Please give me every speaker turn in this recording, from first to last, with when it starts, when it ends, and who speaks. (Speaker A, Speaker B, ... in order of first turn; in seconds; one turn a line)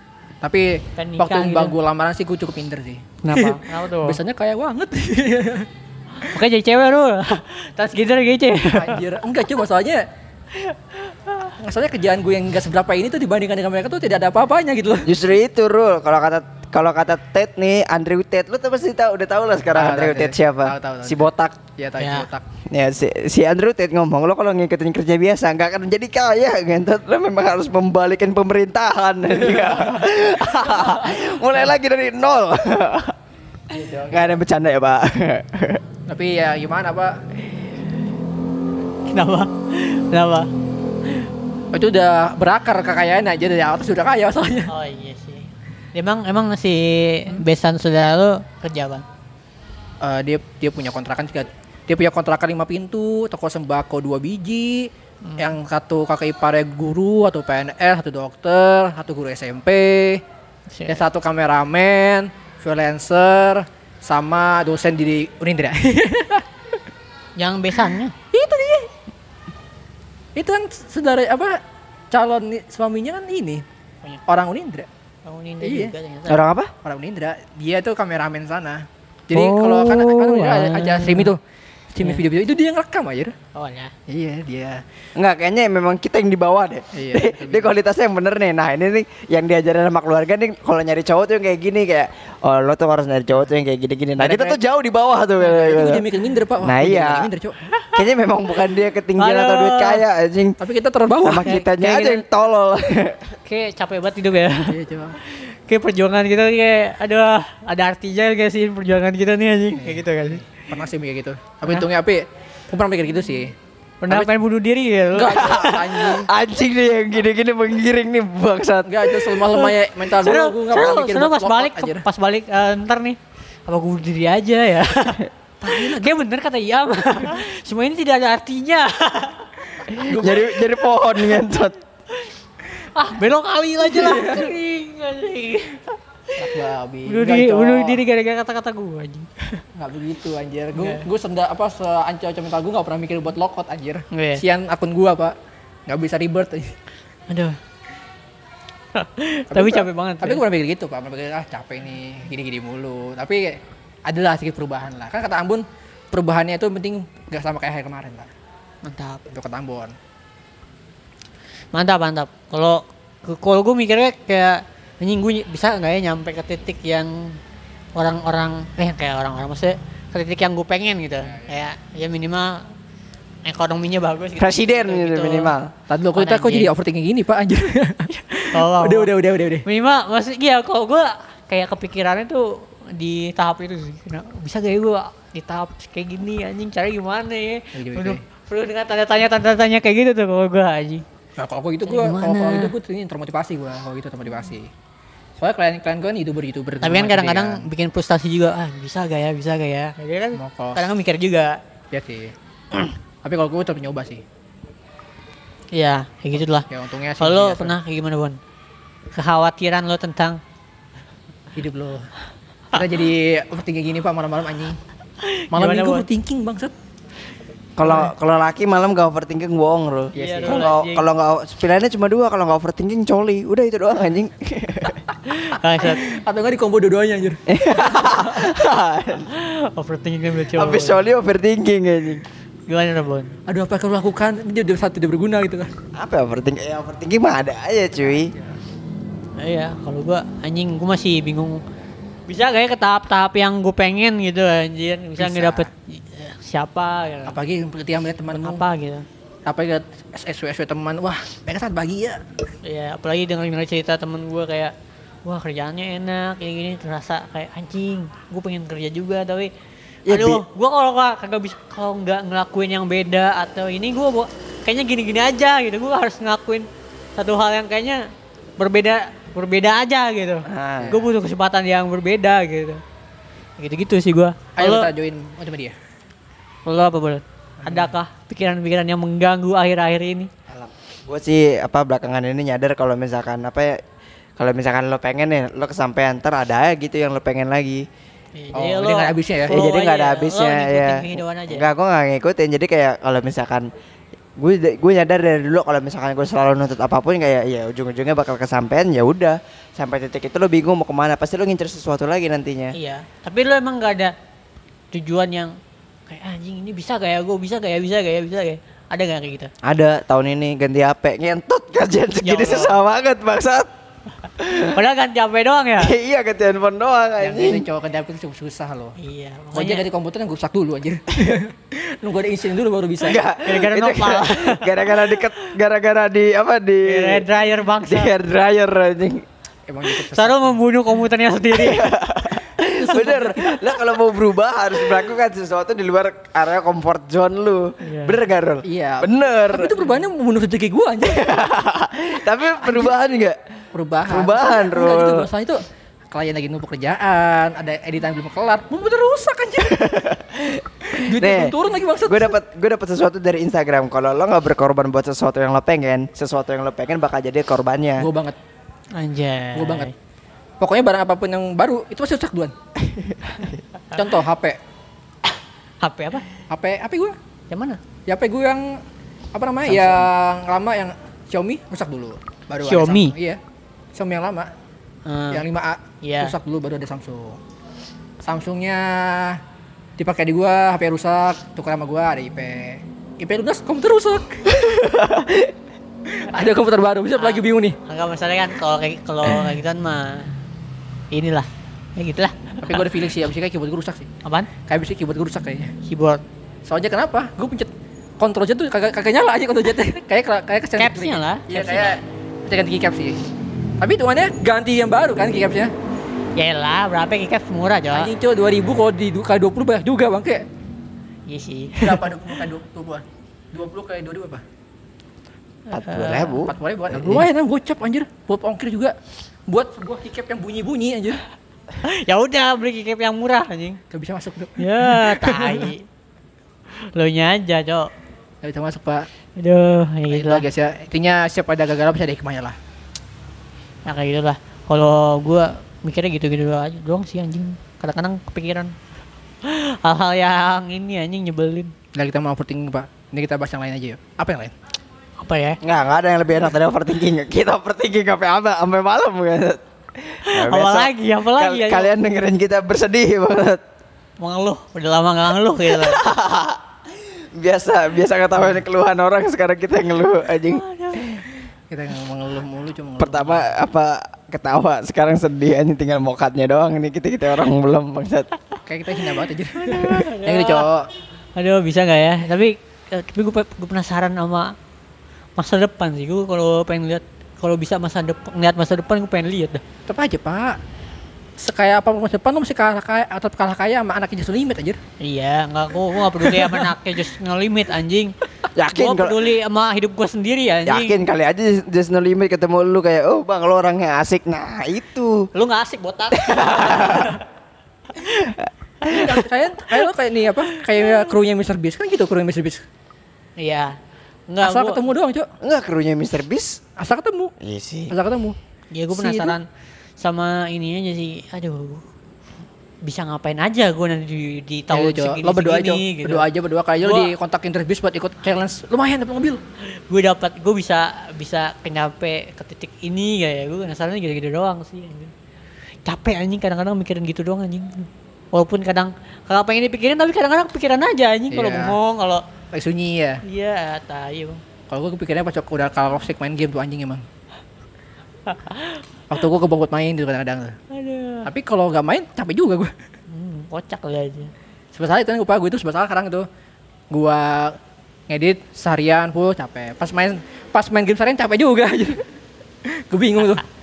Speaker A: 0.4-5.7
Speaker B: 1.0-1.7
Speaker B: 3.2-4.2
Speaker B: 6.2-9.0
Speaker A: 8.7-10.1
Speaker A: 11.4-15.1
Speaker C: 15.0-21.6
Speaker A: 19.7-22.4
Speaker B: 22.0-22.2
Speaker C: 22.7-33.1
Speaker A: 29.5-31.3
Speaker A: 33.7-34.4
Speaker C: 34.1-35.8
Speaker A: 36.1-37.2
Speaker B: 39.1-40.5
Speaker A: 41.7-44.7
Speaker B: 44.7-49.0
Speaker A: 50.0-60.2
Speaker B: 55.2-55.5
Speaker B: 60.7-61.0
Speaker A: 60.9-66.5
Speaker B: 67.4-68.1
Speaker A: 68.3-68.9
Speaker A: 70.3-71.6
Speaker A: 72.1-73.6
Speaker A: 74.3-74.9
Speaker B: 75.2-76.4
Speaker A: 75.6-75.9
Speaker C: 76.3-76.7
Speaker A: 76.8-81.4
Speaker B: 79.3-81.3
Speaker A: 81.9-83.3
Speaker B: 83.5-83.9
Speaker A: 84.1-84.8
Speaker C: 85.2-96.0
Speaker A: 86.9-87.7
Speaker A: 94.2-94.6
Speaker A: 95.4-97.6
Speaker C: 96.6-97.3
Speaker B: 97.7-98.0
Speaker C: 97.9-100.6
Speaker B: 99.2-100.0
Speaker A: 100.6-101.6
Speaker C: 101.2-103.3
Speaker B: 101.4-102.2
Speaker B: 103.4-110.5
Speaker A: 104.7-105.2
Speaker A: 109.8-113.5
Speaker B: 114.0-116.0
Speaker A: 115.1-116.3
Speaker C: 115.4-119.2
Speaker A: 118.9-122.0
Speaker B: 119.5-129.5
Speaker A: 125.6-126.1
Speaker C: 129.9-131.8
Speaker A: 129.9-130.6
Speaker B: 132.9-136.4
Speaker A: 133.8-134.5
Speaker A: 136.4-138.0
Speaker B: 137.1-139.4
Speaker A: 139.7-145.3
Speaker B: 140.8-141.0
Speaker B: 144.1-144.4
Speaker A: 145.9-146.7
Speaker B: 147.3-147.6
Speaker B: 148.9-150.4
Speaker A: 149.5-158.3
Speaker B: 158.8-159.2
Speaker A: 159.3-159.9
Speaker B: 161.7-167.4
Speaker B: 167.9-172.7
Speaker A: 171.2-171.5
Speaker B: 173.4-175.5
Speaker C: 174.4-175.7
Speaker A: 175.9-179.6
Speaker B: 176.1-176.7
Speaker B: 178.5-179.1
Speaker B: 179.6-191.0
Speaker A: 187.7-188.2
Speaker A: 191.4-194.7
Speaker B: 191.8-192.7
Speaker A: 195.4-197.7
Speaker B: 196.8-201.6
Speaker A: 200.3-200.8
Speaker A: 201.9-202.3
Speaker A: 203.2-204.2
Speaker B: 205.7-206.7
Speaker A: 206.7-207.8
Speaker B: 207.2-208.4
Speaker B: 209.1-210.4
Speaker A: 211.5-212.1
Speaker A: 212.7-214.8
Speaker B: 215.2-216.1
Speaker A: 215.5-216.7
Speaker C: 217.8-225.0
Speaker A: 220.1-220.7
Speaker B: 220.1-221.1
Speaker B: 225.3-226.1
Speaker A: 225.8-228.5
Speaker C: 227.5-229.3
Speaker B: 229.3-231.1
Speaker C: 230.6-232.2
Speaker B: 232.7-233.3
Speaker A: 233.5-235.7
Speaker C: 235.9-238.3
Speaker B: 239.4-241.6
Speaker B: 242.3-247.3
Speaker A: 245.2-245.7
Speaker A: 247.2-248.6
Speaker B: 248.3-249.1
Speaker A: 249.4-252.2
Speaker B: 252.6-254.7
Speaker B: 255.2-259.5
Speaker C: 260.1-260.4
Speaker B: 260.1-268.1
Speaker B: 268.6-272.8
Speaker C: 270.5-271.0
Speaker B: 273.6-274.9
Speaker A: 274.6-275.7
Speaker B: 276.6-280.3
Speaker A: 277.6-277.9
Speaker C: 281.1-283.8
Speaker C: 284.4-287.8
Speaker B: 288.4-291.6
Speaker A: 288.5-289.6
Speaker C: 289.5-293.7
Speaker C: 294.4-302.7
Speaker B: 302.7-304.1
Speaker B: 304.9-305.5
Speaker B: 306.1-309.5
Speaker C: 309.6-313.7
Speaker B: 312.2-312.8
Speaker C: 314.4-314.8
Speaker B: 314.5-315.9
Speaker C: 315.8-317.6
Speaker A: 317.2-318.9
Speaker B: 319.0-319.9
Speaker A: 319.5-323.2
Speaker C: 323.0-327.3
Speaker B: 323.4-325.2
Speaker B: 326.8-328.1
Speaker C: 327.9-329.2
Speaker A: 329.7-330.6
Speaker B: 329.9-331.9
Speaker C: 331.5-339.7
Speaker A: 332.6-333.6
Speaker B: 337.8-338.2
Speaker A: 338.6-341.4
Speaker C: 341.0-343.4
Speaker A: 342.6-342.9
Speaker A: 343.7-349.9
Speaker C: 344.1-345.3
Speaker C: 349.7-351.5
Speaker A: 350.9-352.4
Speaker C: 352.1-358.1
Speaker A: 358.0-358.4
Speaker B: 358.9-359.9
Speaker A: 359.5-359.9
Speaker A: 360.6-362.5
Speaker C: 362.8-363.5
Speaker A: 363.9-364.6
Speaker B: 365.8-366.3
Speaker A: 366.5-367.1
Speaker B: 367.5-367.8
Speaker A: 368.1-368.8
Speaker A: 369.3-373.4
Speaker B: 372.6-373.1
Speaker A: 373.9-374.5
Speaker B: 375.1-375.4
Speaker A: 375.3-377.4
Speaker B: 376.0-376.3
Speaker A: 378.2-379.4
Speaker A: 380.0-385.1
Speaker C: 384.7-385.3
Speaker A: 386.1-387.8
Speaker B: 387.2-390.3
Speaker B: 391.1-392.9
Speaker A: 392.6-394.1
Speaker B: 394.2-394.5
Speaker A: 394.6-395.7
Speaker B: 395.8-396.2
Speaker A: 396.6-403.2
Speaker B: 400.8-402.0
Speaker A: 403.8-405.7
Speaker B: 406.4-408.1
Speaker A: 407.9-410.4
Speaker B: 411.3-412.1
Speaker A: 411.8-414.4
Speaker B: 415.7-416.4
Speaker C: 415.7-417.2
Speaker A: 416.4-418.9
Speaker A: 419.5-421.2
Speaker B: 421.8-423.8
Speaker A: 423.9-425.7
Speaker B: 424.6-425.8
Speaker B: 426.9-427.9
Speaker A: 428.4-429.1
Speaker B: 429.4-430.4
Speaker A: 430.1-432.6
Speaker B: 433.8-438.7
Speaker B: 439.4-441.7
Speaker A: 441.9-444.5
Speaker B: 445.2-445.6
Speaker C: 445.6-453.6
Speaker B: 450.2-451.9
Speaker B: 454.2-456.0
Speaker C: 455.7-456.6
Speaker C: 457.3-461.2
Speaker B: 460.5-461.1
Speaker A: 461.7-463.5
Speaker C: 463.0-468.3
Speaker A: 468.6-470.9
Speaker B: 469.6-470.6
Speaker B: 471.4-474.5
Speaker B: 475.4-479.6
Speaker A: 479.9-480.6
Speaker A: 481.4-484.8
Speaker B: 485.0-488.1
Speaker A: 486.2-486.7
Speaker C: 488.5-489.3
Speaker B: 488.7-491.0
Speaker C: 490.6-495.3
Speaker B: 495.3-497.2
Speaker C: 496.1-497.2
Speaker C: 498.0-499.0
Speaker B: 498.8-499.1
Speaker A: 498.9-502.6
Speaker B: 500.6-500.9
Speaker B: 503.4-503.8
Speaker B: 504.3-504.8
Speaker A: 504.4-505.3
Speaker C: 505.4-506.6
Speaker A: 506.8-507.3
Speaker C: 507.4-507.9
Speaker A: 507.9-508.4
Speaker B: 508.7-509.4
Speaker A: 508.9-509.4
Speaker B: 510.0-511.8
Speaker B: 512.8-516.2
Speaker A: 514.7-519.4
Speaker B: 516.8-517.1
Speaker B: 519.9-525.1
Speaker B: 525.8-532.2
Speaker A: 531.3-531.8
Speaker A: 532.5-533.2
Speaker B: 533.2-534.4
Speaker A: 534.7-537.0
Speaker B: 538.2-538.8
Speaker A: 539.1-540.6
Speaker B: 540.7-541.3
Speaker A: 541.2-542.7
Speaker B: 543.1-544.3
Speaker A: 544.7-546.2
Speaker A: 546.9-547.6
Speaker A: 548.1-552.0
Speaker A: 552.6-553.4